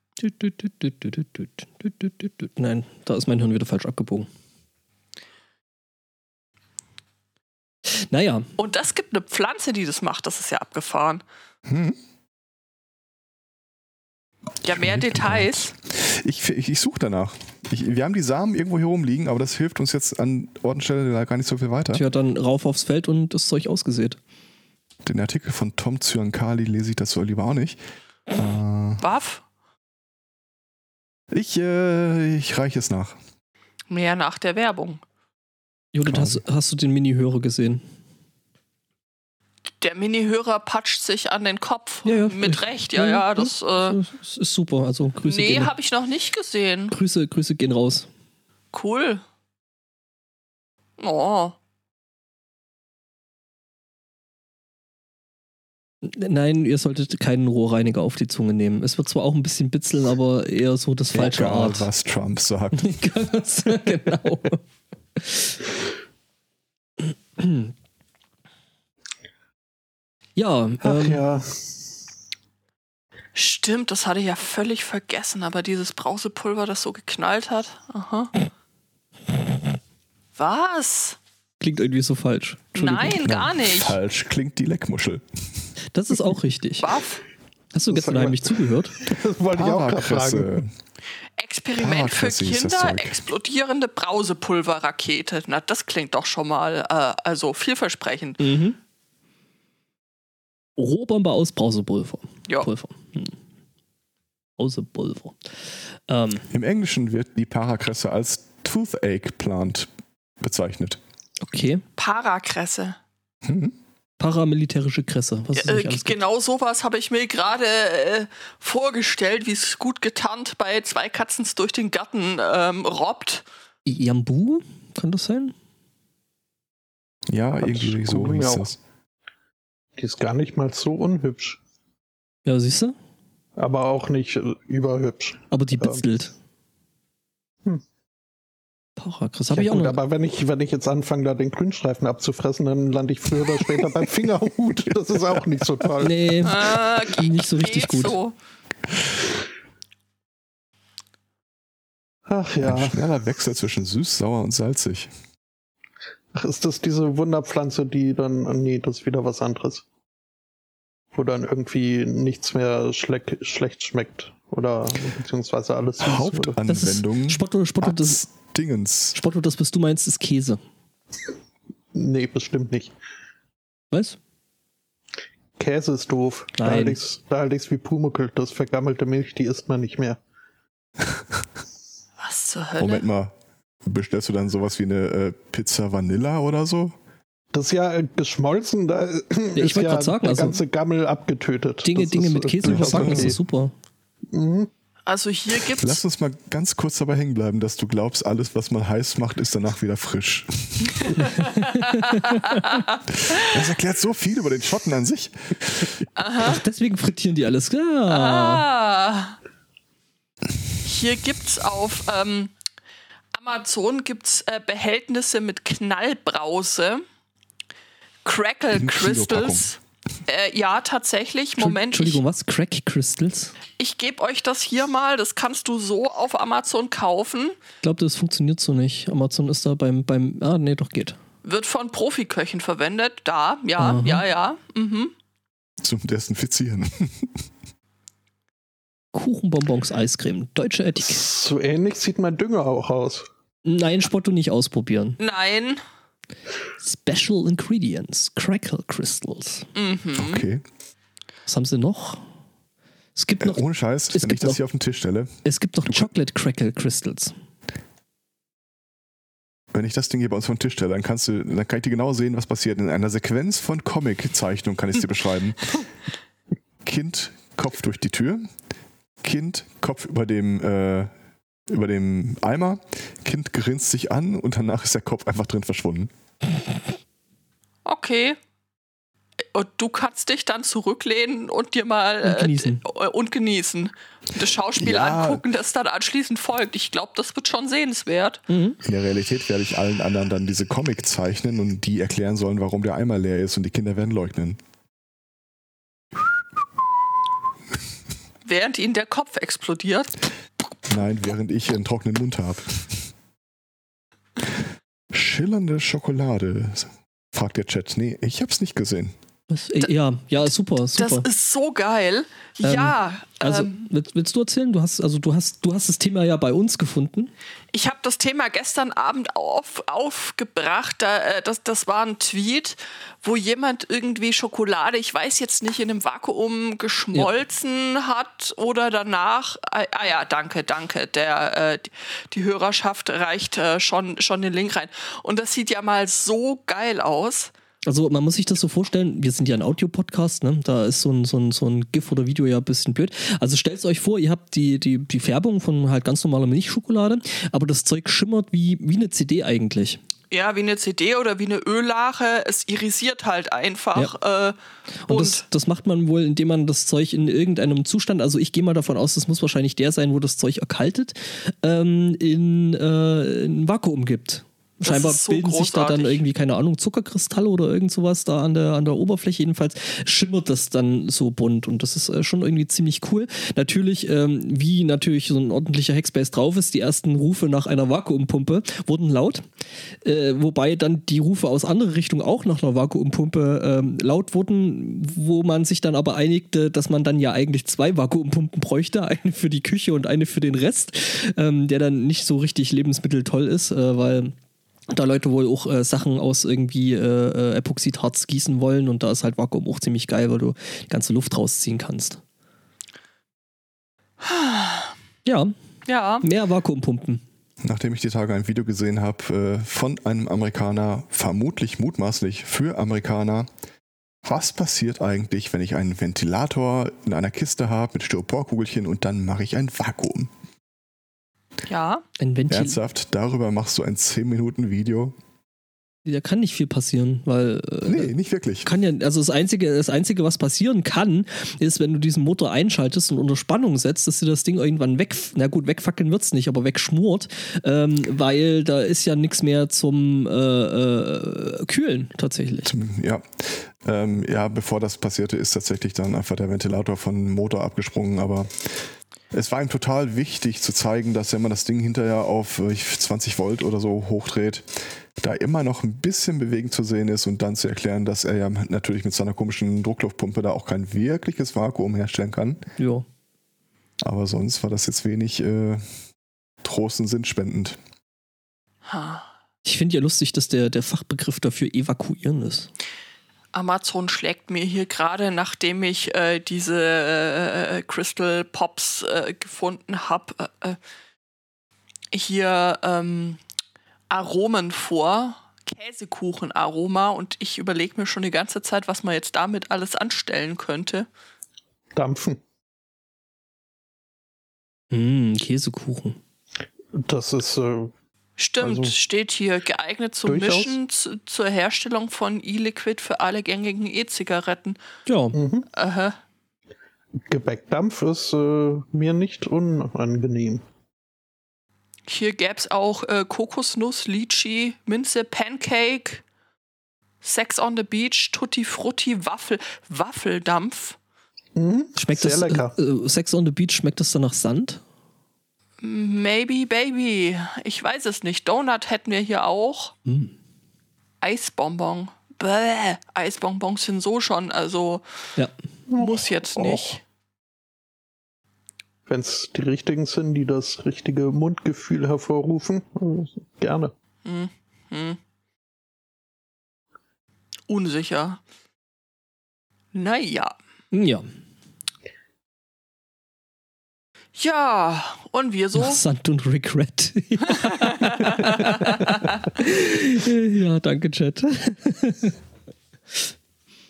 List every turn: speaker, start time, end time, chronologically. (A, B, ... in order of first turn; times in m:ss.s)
0:00.2-0:04.3 A
0:08.1-0:08.5 A
0:08.6-0:11.2 B
0:11.7-0:12.0 C
0:14.6-0:15.7 B
0:14.7-0:22.0 C
0:21.9-0:24.2 A
0:25.0-0:27.8 C
0:28.3-0:29.0 C
0:29.0-0:29.4 B
0:31.3-0:33.2 C
0:33.9-0:35.0 B
0:35.9-0:37.8 A
0:36.0-0:36.4 C
0:39.8-0:44.0 B
0:42.0-0:45.7 A
0:45.2-0:46.9 B
0:46.9-0:48.1 A
0:48.7-0:49.2 B
0:51.0-0:51.6 B
0:56.0-1:01.9 A
1:01.1-1:03.0 C
1:02.8-1:04.6 A
1:05.2-1:05.6 A
1:07.0-1:07.7 A
1:10.4-1:11.2 A
1:10.8-1:11.7 D
1:13.3-1:18.3 B
1:20.4-1:21.2 B
1:21.6-1:23.2 A
1:22.7-1:24.0 B
1:23.2-1:25.6 C
1:25.9-1:26.9 A
1:26.8-1:27.2 B
1:27.7-1:28.9 A
1:27.9-1:30.6 D
1:29.5-1:30.7 C
1:31.4-1:38.4 B
1:31.7-1:33.2 C
1:38.4-1:38.8 A
1:40.8-1:43.3 A
1:44.6-1:46.4 A
1:46.5-1:49.9 C
1:50.4-1:51.0 C
1:51.4-1:51.8 A
1:52.0-1:53.0 B
1:53.4-1:53.7 C
1:54.2-1:56.2 A
1:55.6-2:03.4 B
2:03.8-2:05.5 A
2:07.3-2:08.8 C
2:07.6-2:08.7 D
2:10.0-2:11.6 D
2:12.4-2:12.9 A
2:13.6-2:16.0 D
2:15.5-2:16.3 A
2:19.0-2:20.0 A
2:19.5-2:26.3 D
2:25.3-2:25.9 C
2:26.0-2:28.2 A
2:26.4-2:28.3 B
2:32.3-2:33.0 D
2:32.6-2:35.1 C
2:36.3-2:39.8 D
2:41.1-2:46.6 D
2:46.0-2:49.2 C
2:46.7-2:48.2 A
2:49.1-2:50.6 A
2:51.9-2:52.9 D
2:53.9-2:54.2 A
2:55.6-3:00.2 D
2:56.6-2:57.0 A
3:02.2-3:03.1 B
3:02.8-3:03.3 C
3:03.8-3:06.9 C
3:07.5-3:13.4 D
3:09.6-3:10.6 A
3:11.8-3:13.7 A
3:12.6-3:13.4 C
3:14.3-3:14.7 D
3:15.1-3:16.0 B
3:15.7-3:21.1 C
3:21.0-3:23.4 B
3:21.6-3:22.2 A
3:23.3-3:26.0 C
3:26.2-3:26.6 B
3:26.4-3:28.6 A
3:28.1-3:29.4 B
3:30.8-3:32.5 B
3:33.3-3:37.0 B
3:38.2-3:42.2 B
3:38.7-3:39.7 C
3:41.6-3:43.5 A
3:43.8-3:47.6 B
3:47.8-3:51.2 A
3:51.4-3:55.1 B
3:53.8-3:54.2 A
3:55.8-3:57.3 C
3:59.1-4:01.2 A
4:01.0-4:03.2 D
4:03.6-4:05.2 A
4:05.2-4:05.8 B
4:06.8-4:09.7 A
4:09.7-4:10.4 B
4:10.1-4:10.6 C
4:11.5-4:12.2 A
4:13.2-4:14.6 A
4:13.4-4:15.3 C
4:15.4-4:17.3 A
4:19.7-4:25.7 C
4:26.8-4:28.5 C
4:29.2-4:31.1 C
4:31.7-4:36.1 C
4:37.8-4:38.4 B
4:39.5-4:48.4 B
4:42.2-4:42.8 A
4:44.8-4:45.4 C
4:48.5-4:48.8 A
4:48.8-4:54.6 C
4:58.4-5:00.2 B
5:00.9-5:03.1 C
5:05.1-5:09.1 C
5:09.5-5:11.3 A
5:11.0-5:13.8 B
5:12.6-5:17.3 A
5:17.7-5:37.5 B
5:37.9-5:50.0 A
5:50.3-5:54.6 B
5:55.1-6:19.5 A
5:55.1-5:55.4 B
6:04.8-6:06.2 B
6:20.0-6:34.3 A
6:34.9-6:42.2 A
6:44.2-6:44.9 B
6:45.2-6:45.5 A
6:45.8-6:46.2 B
6:46.2-6:47.2 A
6:47.6-6:53.5 C
6:54.2-7:00.3 C
7:01.7-7:02.0 B
7:02.2-7:02.8 A
7:02.5-7:05.1 C
7:06.0-7:08.1 A
7:07.8-7:08.7 C
7:08.6-7:22.7 A
7:22.6-7:28.8 C
7:29.3-7:42.6 C
7:42.8-7:43.0 A
7:44.0-7:45.8 C
7:46.6-7:47.8 C
7:48.8-7:49.2 B
7:49.6-7:52.7 A
7:53.5-8:00.8 B
8:02.1-8:03.4 B
8:04.1-8:11.1 B
8:11.9-8:12.4 D
8:14.9-8:16.2 A
8:16.9-8:17.9 D
8:18.4-8:24.8 B
8:18.6-8:18.9 D
8:20.2-8:20.8 D
8:25.0-8:25.4 A
8:25.3-8:25.7 D
8:25.7-8:26.2 B
8:27.2-8:30.6 D
8:32.1-8:36.2 B
8:37.2-8:41.0 B
8:41.6-8:42.7 D
8:42.0-8:44.8 A
8:45.8-8:49.9 B
8:50.0-8:50.3 A
8:51.2-8:55.0 B
8:55.9-8:57.0 D
8:55.9-8:57.0 B
8:59.1-9:03.9 D
9:04.2-9:05.2 B
9:07.7-9:08.4 B
9:09.9-9:10.6 B
9:10.9-9:11.2 A
9:14.4-9:16.0 B
9:15.7-9:22.4 A
9:17.6-9:19.4 B